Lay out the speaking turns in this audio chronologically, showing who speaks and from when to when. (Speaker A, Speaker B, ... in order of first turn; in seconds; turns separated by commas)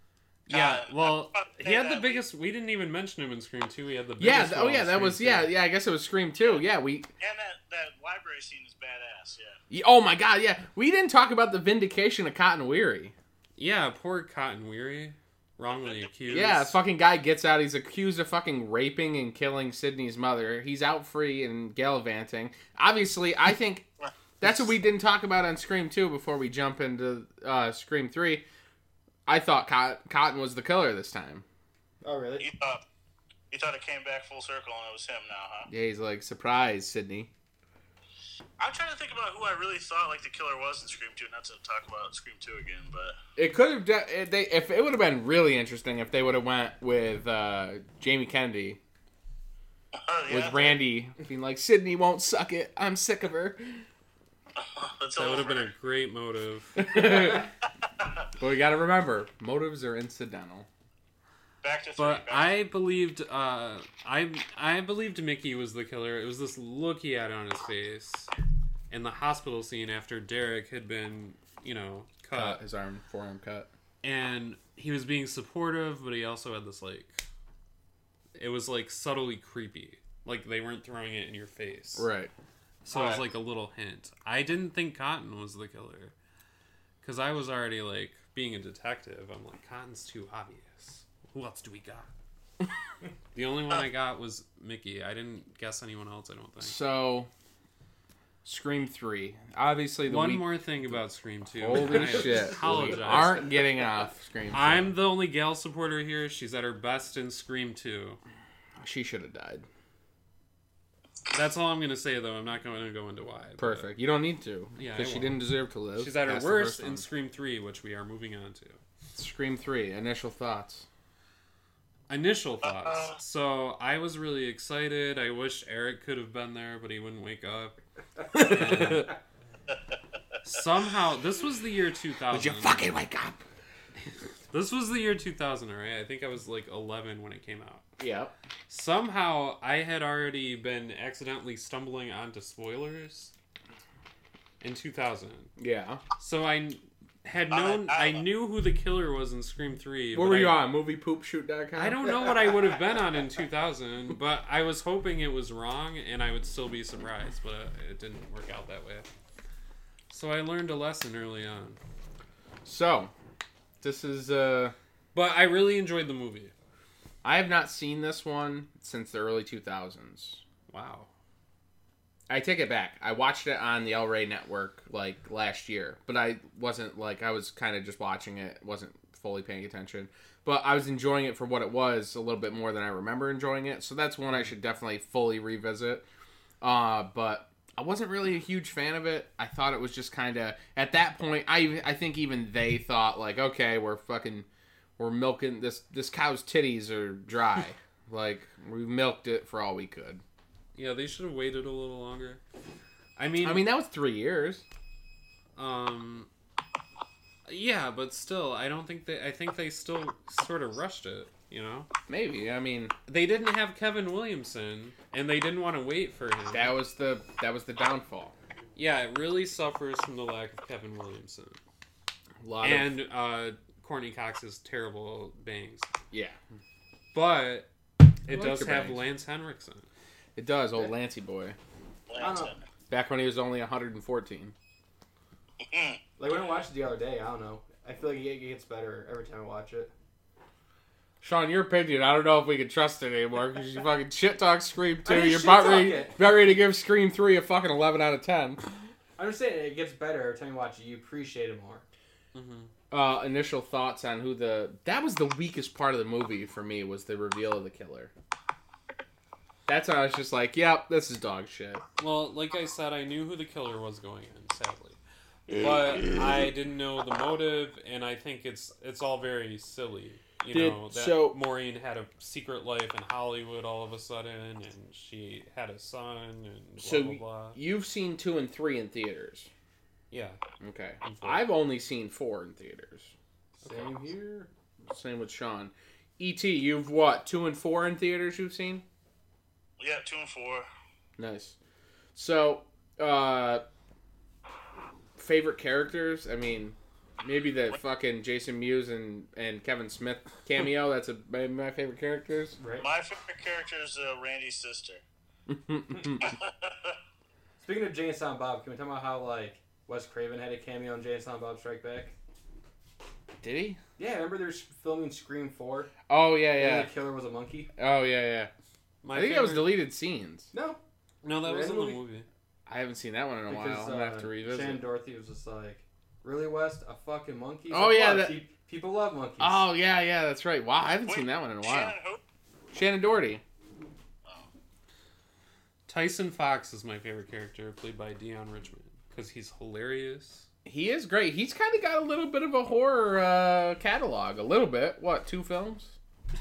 Speaker A: 0.5-5.5, Speaker B: 0.5-2.2, Speaker C: 4.2-7.1, Speaker B: 6.4-6.6, Speaker B: 7.2-9.6, Speaker C: 9.7-13.1, Speaker A: 13.6-16.8, Speaker B: 15.7-16.5, Speaker C: 16.3-23.9, Speaker C: 24.4-28.4, Speaker C: 29.3-31.4, Speaker D: 32.0-32.5, Speaker B: 32.4-32.8, Speaker B: 33.5-35.7, Speaker C: 35.7-37.3, Speaker B: 38.6-43.2, Speaker C: 43.4-48.8, Speaker B: 50.0-50.8, Speaker C: 50.3-53.9, Speaker B: 54.6-55.7, Speaker A: 55.2-57.3, Speaker C: 56.8-57.5, Speaker C: 58.4-60.7, Speaker B: 61.6-62.5, Speaker A: 62.0-68.3, Speaker A: 68.9-72.6, Speaker C: 72.3-73.7, Speaker A: 74.0-77.2, Speaker A: 78.3-82.1, Speaker C: 82.0-82.3, Speaker A: 82.8-86.1, Speaker B: 82.9-83.2, Speaker A: 87.0-92.1, Speaker A: 93.3-96.8, Speaker C: 96.6-97.3, Speaker C: 98.5-104.9, Speaker A: 100.1-103.6, Speaker A: 104.5-108.2, Speaker C: 108.8-109.7, Speaker A: 111.3-113.9, Speaker C: 113.6-117.0, Speaker A: 114.8-118.8, Speaker C: 119.2-120.9, Speaker A: 122.1-127.8, Speaker B: 122.9-123.1, Speaker A: 128.3-129.1, Speaker C: 128.3-129.1, Speaker A: 130.4-132.9, Speaker C: 132.3-133.4, Speaker A: 134.5-137.8, Speaker C: 138.0-138.3, Speaker A: 138.7-143.3, Speaker A: 144.6-145.5, Speaker C: 145.6-146.0, Speaker A: 146.2-150.6, Speaker B: 147.5-148.3, Speaker C: 150.1-152.6, Speaker A: 151.8-159.1, Speaker A: 160.1-161.8, Speaker C: 162.7-163.1, Speaker C: 163.8-164.8, Speaker A: 165.1-166.5, Speaker C: 167.2-170.4, Speaker A: 170.7-171.1, Speaker C: 172.3-186.1, Speaker C: 186.6-194.5, Speaker C: 195.0-200.2, Speaker A: 200.8-202.4, Speaker A: 203.2-203.7, Speaker C: 203.4-204.7, Speaker A: 205.6-206.3, Speaker A: 207.5-211.9, Speaker C: 212.1-212.9, Speaker A: 213.1-216.8, Speaker C: 216.5-218.3, Speaker A: 218.8-221.6, Speaker C: 222.4-222.9, Speaker A: 222.6-225.9, Speaker C: 226.1-226.4, Speaker A: 227.1-227.7, Speaker A: 228.2-229.9, Speaker C: 228.3-229.1, Speaker C: 230.4-231.6, Speaker B: 232.1-232.6, Speaker D: 232.2-232.6, Speaker C: 232.9-234.5, Speaker B: 235.6-236.0, Speaker D: 236.2-239.9, Speaker C: 241.2-248.7, Speaker D: 245.1-246.2, Speaker D: 249.2-251.8, Speaker A: 252.3-252.7, Speaker C: 252.9-258.1, Speaker C: 259.7-261.8, Speaker A: 262.0-265.0, Speaker A: 265.5-277.6, Speaker C: 270.5-271.4, Speaker C: 276.8-279.5, Speaker A: 280.1-280.4, Speaker C: 280.6-283.1, Speaker A: 281.0-281.5, Speaker D: 283.6-284.5, Speaker A: 283.6-283.9, Speaker C: 284.9-288.9, Speaker B: 289.8-290.7, Speaker C: 291.2-291.6, Speaker C: 292.1-293.6, Speaker C: 295.2-302.6, Speaker D: 302.6-302.9, Speaker B: 302.8-305.0, Speaker C: 305.5-306.3, Speaker B: 306.2-307.0, Speaker D: 307.6-312.1, Speaker C: 313.4-313.8, Speaker D: 314.0-315.9, Speaker C: 316.1-316.9, Speaker D: 316.5-317.7, Speaker C: 317.8-318.5, Speaker A: 319.0-319.8, Speaker C: 319.1-320.5, Speaker D: 320.5-320.8, Speaker A: 321.2-322.3, Speaker D: 321.4-322.0, Speaker C: 322.7-324.8, Speaker D: 323.5-329.7, Speaker C: 327.7-328.4, Speaker C: 329.4-331.9, Speaker B: 331.1-332.2, Speaker C: 332.7-333.4, Speaker A: 335.9-340.5, Speaker C: 340.6-345.9